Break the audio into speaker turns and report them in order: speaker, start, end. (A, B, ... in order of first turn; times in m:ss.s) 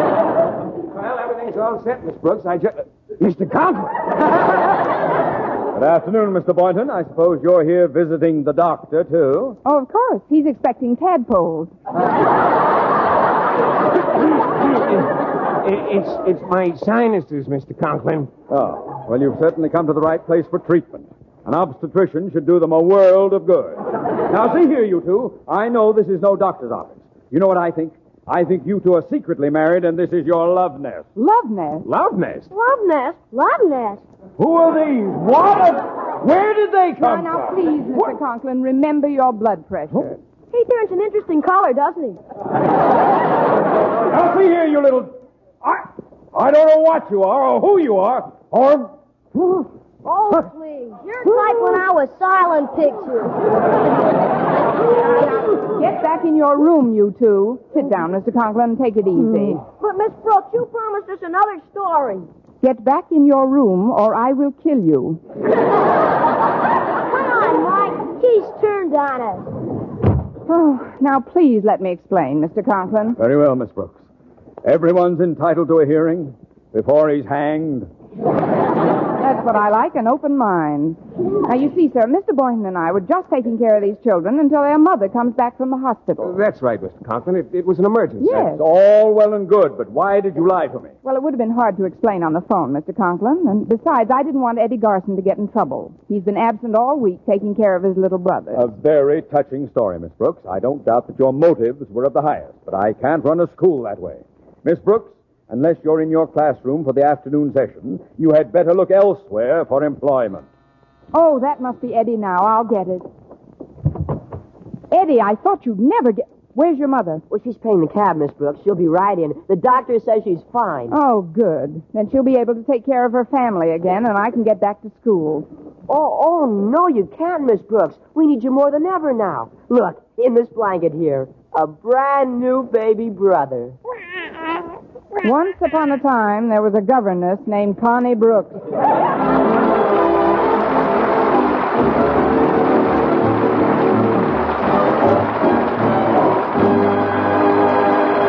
0:00.9-0:04.0 A
0:05.7-0:09.6 B
0:09.6-0:11.7 C
0:14.4-0:18.3 A
0:18.5-0:31.1 B
0:31.2-0:31.9 C
0:31.8-0:32.5 A
0:32.5-0:34.0 D
0:34.4-0:38.2 B
0:37.0-0:40.2 C
0:40.5-0:42.2 D
0:44.1-0:49.7 B
0:50.0-0:53.4 D
0:55.1-0:59.6 C
0:59.2-1:02.3 D
1:02.6-1:05.2 C
1:07.0-1:09.5 D
1:10.5-1:13.2 C
1:13.2-1:14.0 B
1:14.6-1:17.9 B
1:19.2-1:26.4 C
1:26.2-1:28.5 A
1:28.2-1:28.6 C
1:28.5-1:30.9 B
1:31.0-1:38.7 C
1:38.6-1:50.4 B
1:51.1-1:53.1 C
1:54.9-1:57.2 C
1:57.3-2:01.0 E
2:00.9-2:05.5 C
2:05.9-2:13.8 E
2:15.2-2:18.6 C